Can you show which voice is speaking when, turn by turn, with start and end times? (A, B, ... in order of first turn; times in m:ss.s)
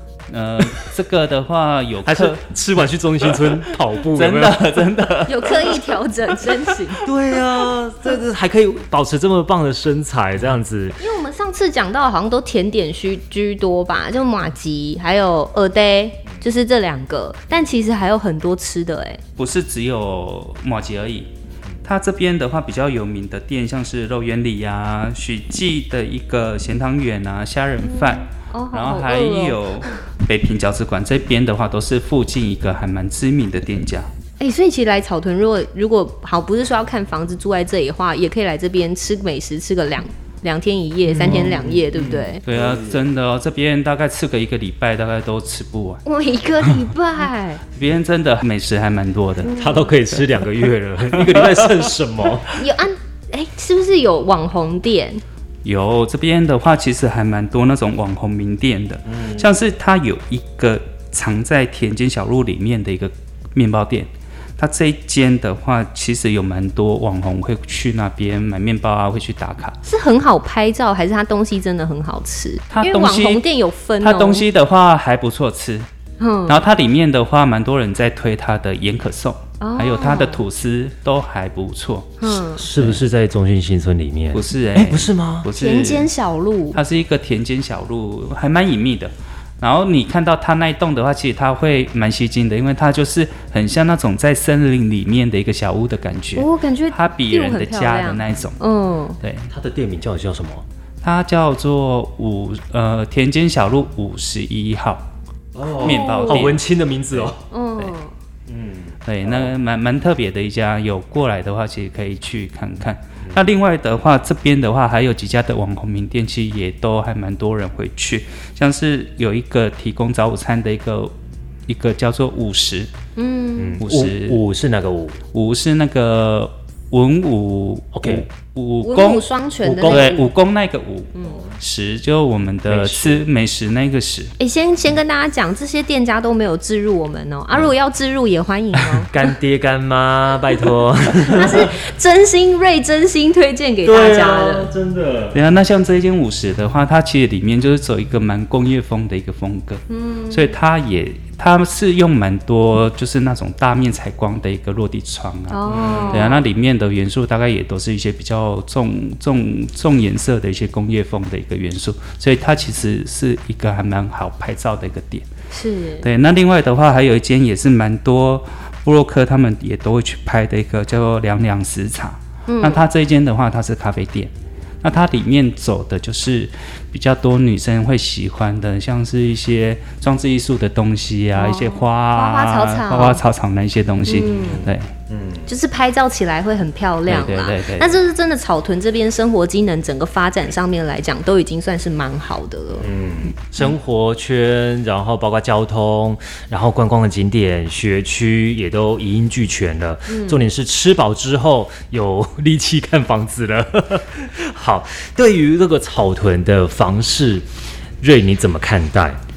0:00.3-0:02.4 A
0:02.0-0:04.6 B
0:04.0-0:05.8 A
0:05.3-0:07.1 C
0:07.0-0:11.0 B
0:11.0-0:19.2 C
0:19.4-0:21.3 A
0:21.8-0:34.1 A
0:27.8-0:29.9 C
0:34.4-0:42.4 C
0:41.1-0:41.6 A
0:41.2-0:43.0 B
0:42.4-0:46.0 A
0:46.0-0:47.6 C
0:47.7-0:49.5 A
0:49.5-0:52.5 B
0:49.5-0:49.8 C
0:51.2-0:51.7 A
0:52.5-0:55.2 C
0:55.6-1:09.8 A
0:59.0-0:59.5 B
1:09.8-1:14.5 C
1:12.7-1:13.4 A
1:14.0-1:15.9 A
1:16.2-1:16.6 C
1:16.5-1:23.0 A
1:19.6-1:20.4 C
1:22.2-1:22.6 C
1:22.6-1:25.5 B
1:24.3-1:26.1 A
1:25.6-1:26.8 C
1:26.7-1:38.6 A
1:36.4-1:39.2 C
1:39.2-1:39.5 A
1:39.5-1:40.6 B
1:41.0-1:45.0 A
1:45.5-1:47.4 B
1:45.8-1:46.6 A
1:45.8-1:46.5 C
1:47.1-1:47.9 A
1:47.5-1:48.1 C
1:48.5-1:49.5 B
1:49.0-2:01.1 A
2:01.7-2:02.9 A
2:03.2-2:03.8 C
2:03.6-2:05.2 B
2:03.8-2:04.4 A
2:05.3-2:09.3 A
2:07.9-2:08.2 B
2:08.8-2:10.3 C
2:09.6-2:10.1 B
2:09.8-2:14.3 A
2:12.6-2:13.2 B
2:14.4-2:19.1 C
2:18.8-2:21.7 B
2:21.2-2:24.7 C
2:23.8-2:25.4 B
2:25.3-2:45.2 A
2:29.9-2:30.5 C
2:35.5-2:36.4 C
2:35.7-2:36.3 B
2:45.5-2:46.1 C
2:46.0-2:54.3 A
2:52.5-2:52.9 C
2:54.8-3:04.9 A
3:01.3-3:03.2 C
3:04.0-3:04.7 C
3:04.2-3:05.5 B
3:05.5-3:12.9 C
3:07.1-3:08.0 A
3:12.8-3:27.4 B
3:20.1-3:20.4 C
3:28.0-3:29.2 B